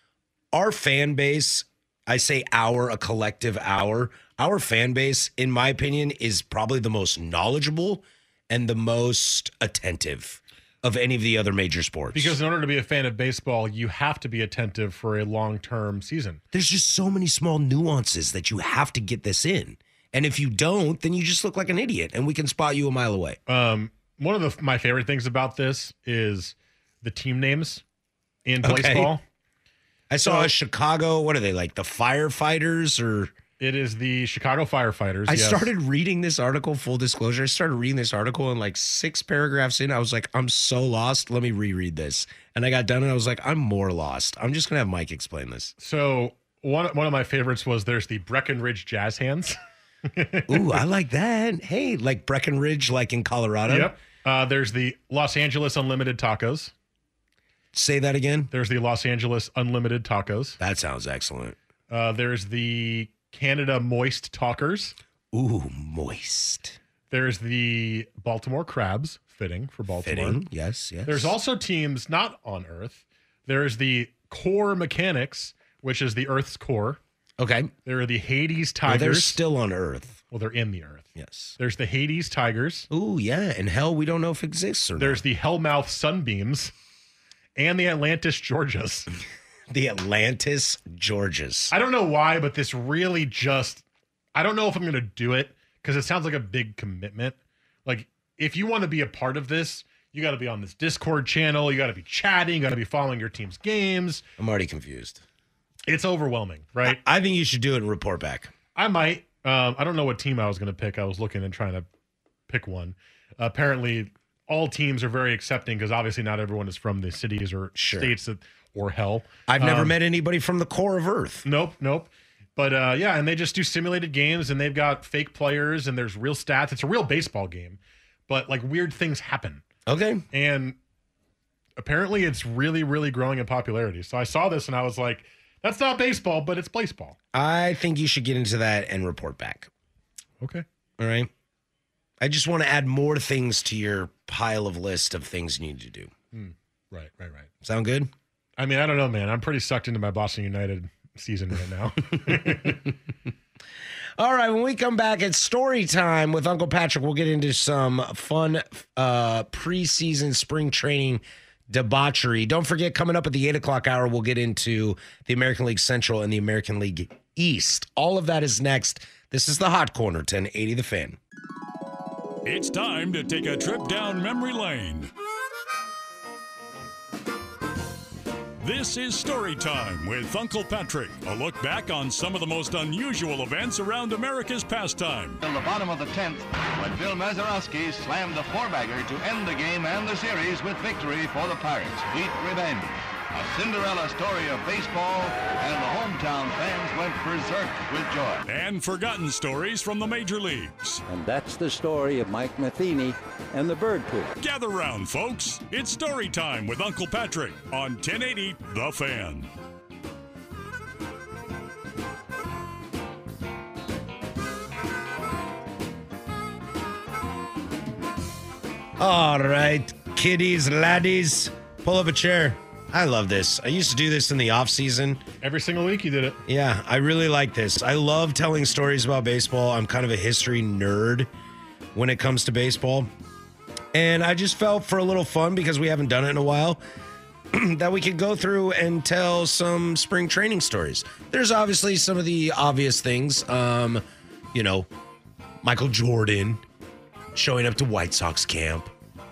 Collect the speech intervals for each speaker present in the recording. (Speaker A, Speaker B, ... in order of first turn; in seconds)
Speaker A: 0.5-12.4, 16.5-23.4, 28.6-29.2, 30.1-33.3, 35.3-45.7, 50.5-54.0, 57.7-58.5, 60.6-61.6, 65.3-66.8, 70.0-71.4, 77.4-77.7, 78.9-80.2, 81.2-81.6, 82.9-85.2, 89.7-91.7, 104.4-105.2, 106.8-108.5, 117.8-118.1, 119.5-121.5, 129.9-130.2, 137.3-139.7, 141.0-141.3, 142.2-146.1, 147.6-148.1, 152.4-152.7, 154.2-171.2, 219.0-225.2, 226.5-231.3, 231.9-233.1, 233.9-236.8, 237.5-244.9, 245.6-246.6, 247.3-248.9
Speaker B: 12.1-16.4, 23.5-27.8, 28.5-29.2, 30.2-30.5, 33.6-35.7, 45.8-49.6, 50.1-50.8, 53.7-56.7, 58.5-60.6, 61.9-65.0, 67.1-70.4, 71.1-77.0, 77.9-79.4, 80.3-82.9, 85.0-86.7, 87.6-89.1, 91.7-93.8, 94.3-104.2, 105.9-107.0, 108.8-111.9, 112.5-120.0, 121.5-129.6, 130.3-130.8, 131.8-137.2, 146.3-147.5, 148.6-152.9, 225.4-226.4
Speaker C: 172.4-175.1, 178.6-185.4, 198.5-201.0, 204.4-209.5
Speaker D: 185.4-198.4
Speaker E: 201.1-204.3